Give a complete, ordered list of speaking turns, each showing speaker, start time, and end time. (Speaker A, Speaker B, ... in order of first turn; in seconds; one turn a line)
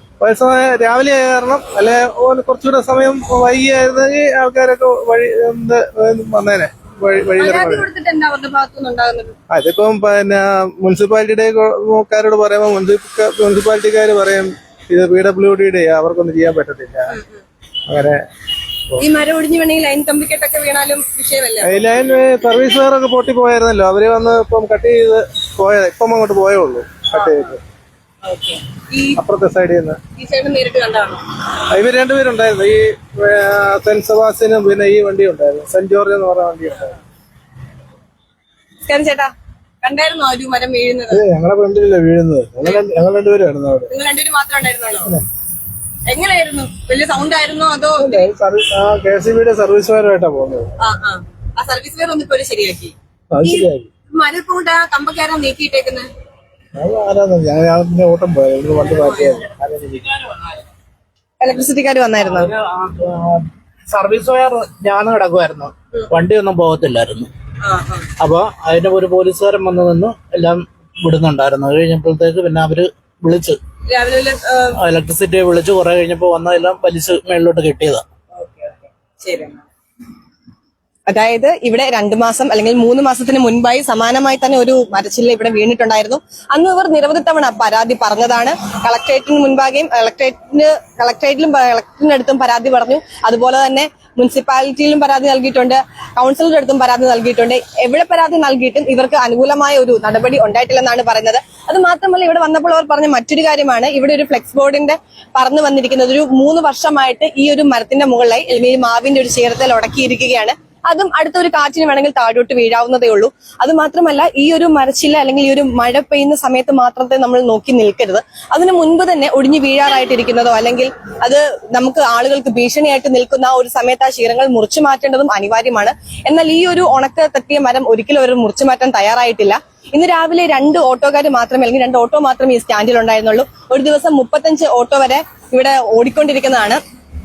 Speaker A: 0.2-7.9
Speaker B: 7.3-9.3
Speaker A: 9.5-17.2
Speaker B: 17.1-17.4
Speaker A: 17.9-18.2
Speaker B: 19.0-21.8
Speaker A: 21.6-27.6
Speaker B: 27.1-27.5
Speaker B: 28.2-29.2
Speaker A: 29.2-30.0
Speaker B: 30.1-31.2
Speaker A: 31.7-37.0
Speaker B: 38.9-41.2
Speaker A: 41.1-43.9
Speaker B: 43.9-45.2
Speaker B: 46.1-48.3
Speaker A: 48.0-50.7
Speaker B: 50.8-56.1
Speaker A: 53.3-53.9
Speaker A: 56.8-60.1
Speaker B: 58.9-59.4
Speaker B: 61.4-62.5
Speaker C: 62.2-67.3
Speaker B: 67.6-68.1
Speaker C: 68.2-73.6
Speaker B: 73.9-74.8
Speaker C: 74.8-78.0
Speaker B: 78.4-79.6
Speaker B: 81.1-136.8